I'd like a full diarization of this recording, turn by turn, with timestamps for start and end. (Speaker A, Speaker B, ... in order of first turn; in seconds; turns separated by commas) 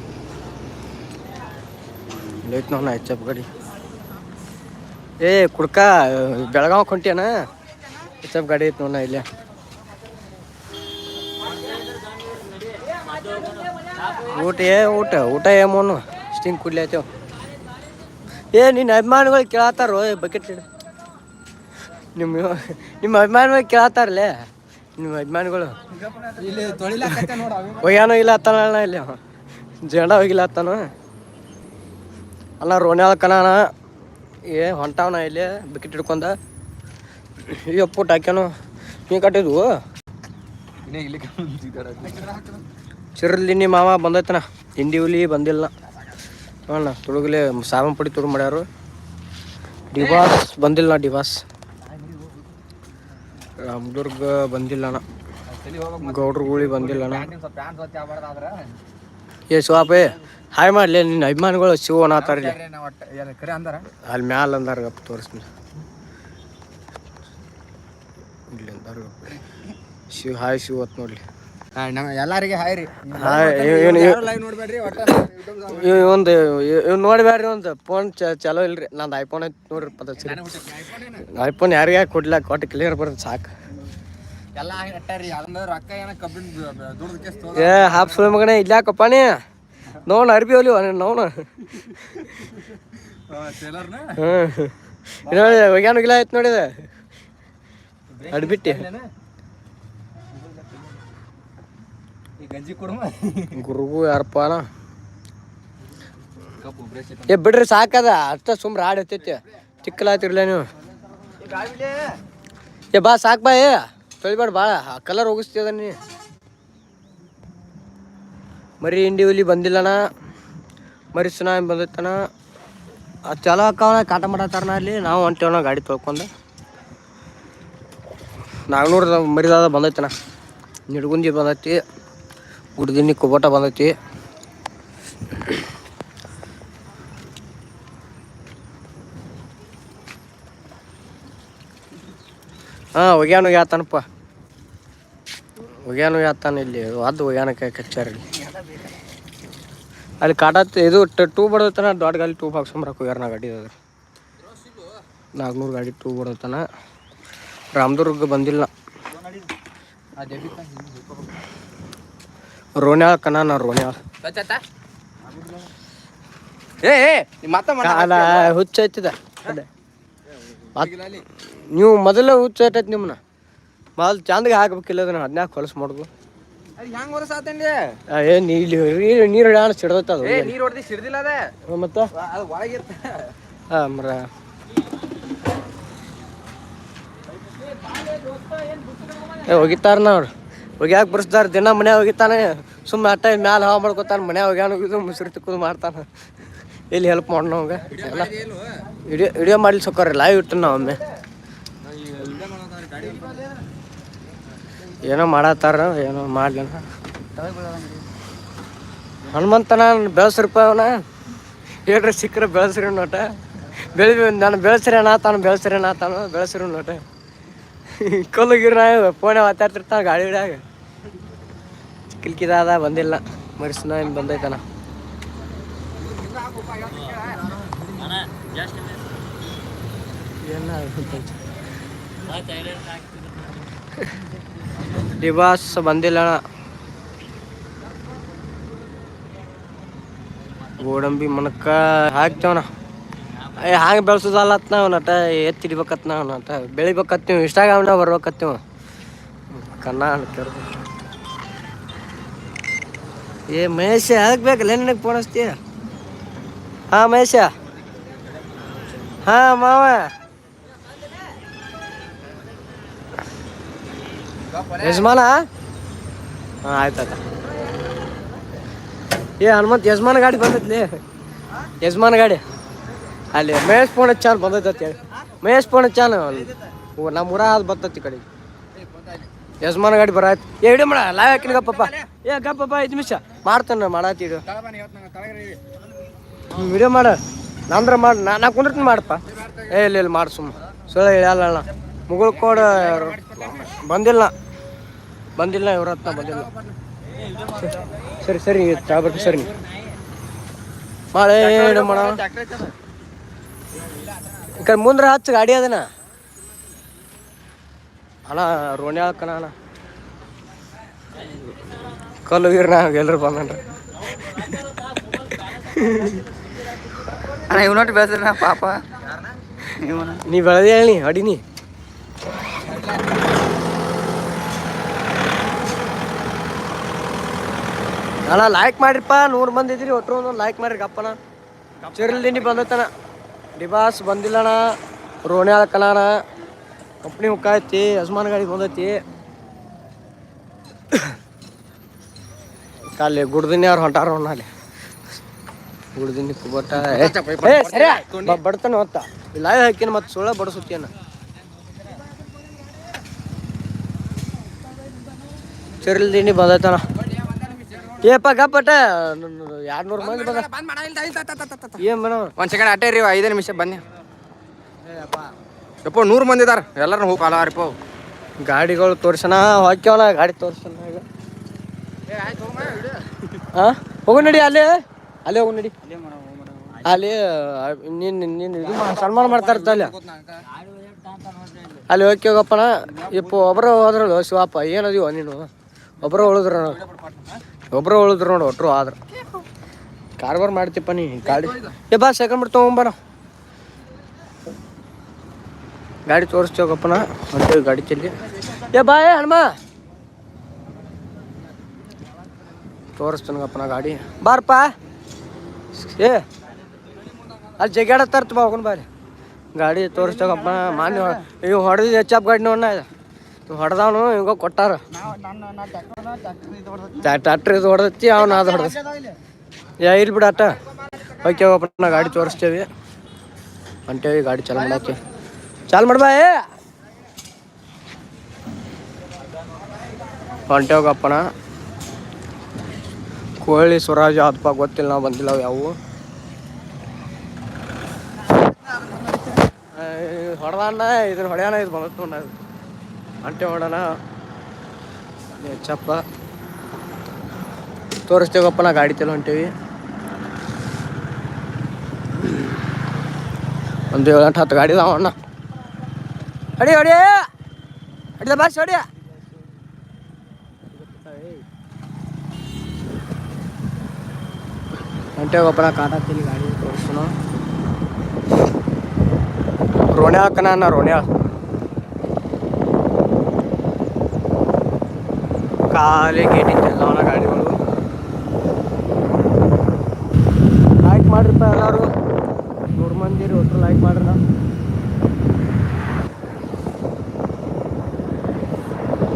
Speaker A: 2.4-3.5, Speaker A: 5.2-7.3, Speaker A: 8.2-9.2, Speaker A: 14.2-17.1, Speaker A: 18.5-20.6, Speaker A: 22.1-25.8, Speaker B: 26.0-27.9, Speaker A: 27.8-29.2, Speaker A: 29.8-30.9, Speaker A: 32.6-33.6, Speaker A: 34.5-36.4, Speaker A: 37.4-38.5, Speaker A: 39.1-39.8, Speaker B: 40.9-42.6, Speaker A: 43.2-45.7, Speaker A: 46.7-48.7, Speaker A: 49.9-51.4, Speaker B: 52.0-52.3, Speaker A: 53.6-55.0, Speaker B: 55.5-58.8, Speaker A: 56.0-57.3, Speaker A: 59.5-62.6, Speaker B: 62.2-63.9, Speaker A: 64.0-65.5, Speaker A: 68.5-69.2, Speaker A: 70.1-71.2, Speaker B: 71.8-76.1, Speaker A: 73.1-74.3, Speaker A: 75.6-83.5, Speaker B: 80.2-81.2, Speaker B: 84.5-88.2, Speaker A: 87.5-89.4, Speaker A: 90.0-92.2, Speaker B: 93.3-94.2, Speaker A: 94.2-96.8, Speaker B: 98.1-99.1, Speaker A: 98.3-98.9, Speaker B: 102.4-103.6, Speaker A: 103.5-104.6, Speaker B: 106.6-107.3, Speaker A: 107.2-110.7, Speaker B: 111.4-112.2, Speaker A: 112.9-116.0, Speaker A: 118.8-120.0, Speaker A: 121.1-122.2, Speaker A: 123.3-126.3, Speaker A: 128.7-130.1, Speaker A: 130.9-131.8, Speaker A: 132.8-133.9, Speaker A: 143.0-144.1, Speaker A: 145.8-148.2, Speaker A: 150.2-153.8, Speaker A: 155.4-156.6, Speaker A: 157.8-158.7, Speaker B: 160.2-161.3, Speaker A: 162.8-163.9, Speaker B: 164.2-164.6, Speaker B: 165.3-165.7, Speaker B: 166.8-168.5, Speaker A: 167.8-169.7, Speaker B: 170.6-171.3, Speaker A: 170.8-173.2, Speaker A: 174.0-176.1, Speaker B: 176.8-178.0, Speaker A: 178.1-180.6, Speaker B: 180.2-181.6, Speaker A: 181.7-182.1, Speaker B: 182.2-183.4, Speaker A: 183.7-184.3, Speaker A: 189.4-196.1, Speaker A: 196.9-198.4, Speaker B: 198.0-198.8, Speaker A: 199.1-201.0, Speaker B: 201.8-203.5, Speaker A: 205.1-206.8, Speaker C: 207.3-208.1, Speaker A: 209.2-211.0, Speaker A: 211.9-217.0, Speaker A: 217.9-220.6, Speaker A: 222.1-224.6, Speaker B: 226.1-228.2, Speaker A: 230.4-231.4, Speaker A: 235.1-236.4, Speaker A: 240.8-242.7, Speaker A: 243.6-248.6, Speaker A: 249.5-250.8, Speaker A: 253.5-255.6, Speaker A: 256.9-257.5, Speaker A: 259.2-260.1, Speaker A: 264.7-265.4, Speaker A: 266.6-267.2, Speaker A: 269.4-270.9, Speaker A: 271.8-272.4, Speaker A: 273.3-278.2, Speaker B: 278.8-279.3, Speaker A: 279.6-284.4, Speaker B: 281.8-282.1, Speaker B: 284.5-285.6, Speaker A: 286.5-287.2, Speaker A: 287.7-294.3, Speaker B: 292.6-293.5, Speaker A: 295.4-296.5, Speaker B: 296.3-296.8, Speaker A: 298.2-299.5, Speaker A: 301.1-302.2, Speaker B: 301.4-302.8, Speaker A: 304.4-305.9, Speaker A: 308.3-309.5, Speaker A: 312.3-313.6, Speaker A: 314.3-314.6, Speaker A: 315.5-316.2, Speaker C: 317.3-318.8, Speaker C: 319.6-320.3, Speaker A: 320.2-321.4, Speaker B: 322.7-323.0, Speaker A: 328.3-331.2, Speaker A: 331.9-332.9, Speaker A: 333.6-336.2, Speaker A: 337.0-339.0, Speaker A: 343.0-344.5, Speaker A: 346.0-350.9, Speaker B: 346.8-348.4, Speaker A: 355.8-356.8, Speaker B: 357.2-358.0, Speaker A: 358.0-360.5, Speaker B: 360.0-361.8, Speaker A: 361.8-362.3, Speaker B: 362.4-363.9, Speaker A: 364.9-365.3, Speaker B: 365.8-367.8, Speaker A: 368.5-371.1, Speaker B: 372.1-373.4, Speaker A: 373.5-374.7, Speaker A: 375.2-375.7, Speaker C: 375.9-376.8, Speaker A: 376.8-380.0, Speaker B: 378.8-381.6, Speaker A: 381.9-385.5, Speaker A: 386.0-386.9, Speaker B: 387.0-387.4, Speaker A: 387.7-389.0, Speaker A: 390.2-392.9, Speaker B: 391.4-391.7, Speaker A: 396.1-399.5, Speaker A: 403.0-404.7, Speaker A: 405.7-406.3, Speaker A: 407.6-408.9, Speaker A: 409.6-412.9, Speaker A: 413.5-415.0, Speaker C: 415.3-416.8, Speaker A: 417.0-418.8, Speaker A: 419.8-420.6, Speaker A: 421.1-422.7, Speaker A: 423.9-425.0, Speaker A: 425.7-426.4, Speaker A: 430.5-431.2, Speaker A: 433.4-435.8, Speaker A: 439.7-442.3, Speaker A: 443.2-443.9, Speaker A: 445.4-446.0, Speaker A: 448.1-449.5, Speaker A: 452.2-452.5, Speaker A: 453.9-455.1, Speaker A: 456.6-457.2, Speaker A: 458.2-458.9, Speaker A: 460.7-461.4, Speaker A: 465.2-467.1, Speaker A: 469.9-471.1, Speaker A: 475.7-477.6, Speaker A: 480.8-481.9, Speaker A: 482.8-484.2